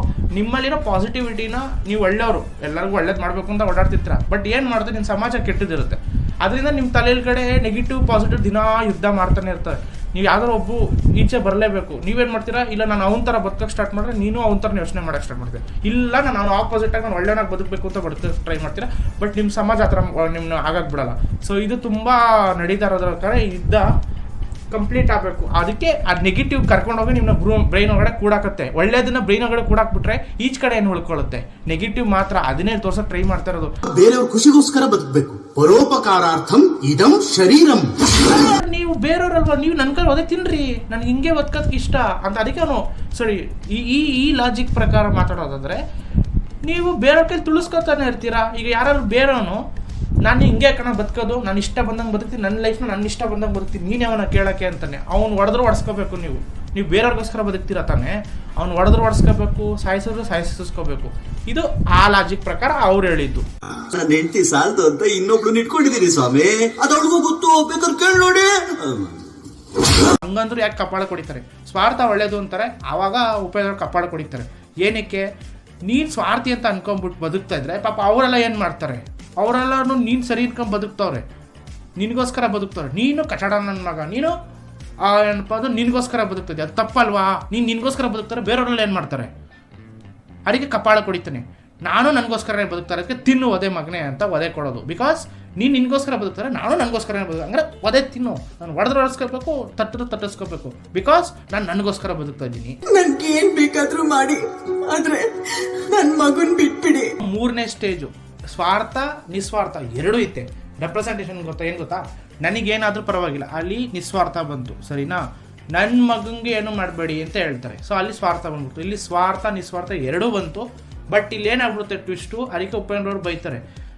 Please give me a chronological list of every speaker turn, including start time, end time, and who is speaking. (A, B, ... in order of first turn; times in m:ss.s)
0:00.3-0:23.8 A
0:24.7-0:33.7 A
0:33.9-0:37.9 B
0:38.2-0:45.8 A
0:46.6-0:49.6 A
0:50.2-1:03.4 A
1:03.9-1:09.1 C
1:10.2-1:15.2 A
1:15.8-1:21.2 A
1:22.0-1:24.3 A
1:25.0-1:29.3 A
1:30.4-1:42.8 A
1:42.9-1:45.3 D
1:45.8-1:47.1 D
1:47.2-1:55.2 A
1:55.8-2:03.6 A